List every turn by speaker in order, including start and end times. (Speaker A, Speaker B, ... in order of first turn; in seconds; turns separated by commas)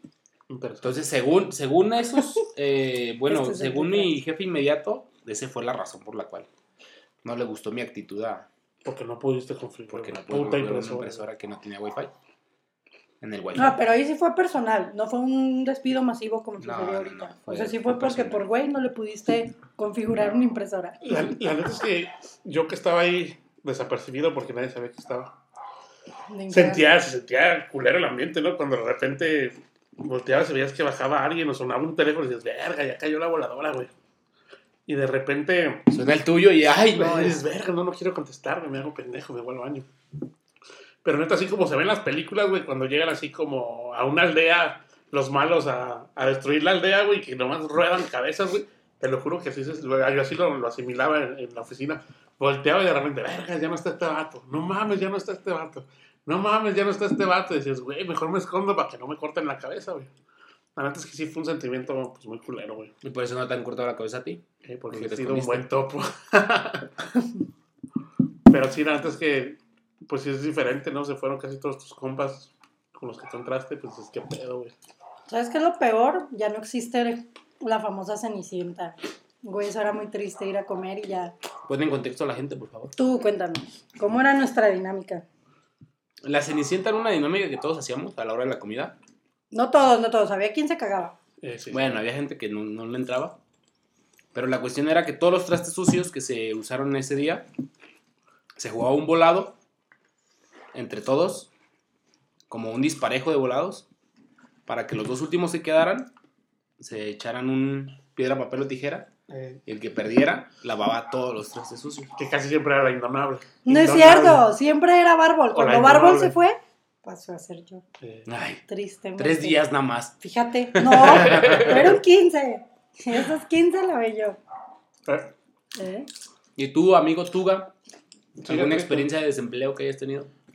Speaker A: 0.5-1.0, Speaker B: 0.8-6.5, Speaker C: 3.3-4.1, Speaker B: 7.2-8.5, Speaker A: 8.8-11.2, Speaker B: 9.9-12.1, Speaker B: 13.2-13.8, Speaker C: 13.5-21.0, Speaker B: 16.6-18.5, Speaker A: 21.0-25.4, Speaker C: 26.3-27.0, Speaker A: 26.5-33.9, Speaker A: 34.9-35.8, Speaker B: 35.9-37.4, Speaker A: 36.9-39.9, Speaker A: 41.0-60.1, Speaker A: 60.8-62.9, Speaker B: 63.0-65.7, Speaker A: 64.6-66.9, Speaker A: 68.5-74.7, Speaker C: 75.3-81.3, Speaker B: 81.7-82.9, Speaker C: 83.0-85.2, Speaker B: 86.2-88.9, Speaker C: 89.5-91.1, Speaker A: 91.4-92.0, Speaker B: 91.7-93.3, Speaker B: 94.3-97.5, Speaker B: 98.6-99.5, Speaker B: 100.7-101.5, Speaker B: 102.5-103.9, Speaker B: 104.7-106.1, Speaker B: 106.8-109.1, Speaker A: 109.3-109.6, Speaker B: 109.7-112.1, Speaker A: 112.2-114.5, Speaker C: 113.6-117.8, Speaker A: 115.5-116.3, Speaker A: 118.0-118.2, Speaker B: 118.2-118.6, Speaker C: 118.7-119.6, Speaker B: 119.2-120.2, Speaker C: 120.2-124.4, Speaker B: 120.7-121.8, Speaker A: 121.0-122.0, Speaker A: 125.1-125.3, Speaker C: 125.8-126.1, Speaker B: 126.6-127.7, Speaker B: 128.4-130.3, Speaker A: 128.4-129.1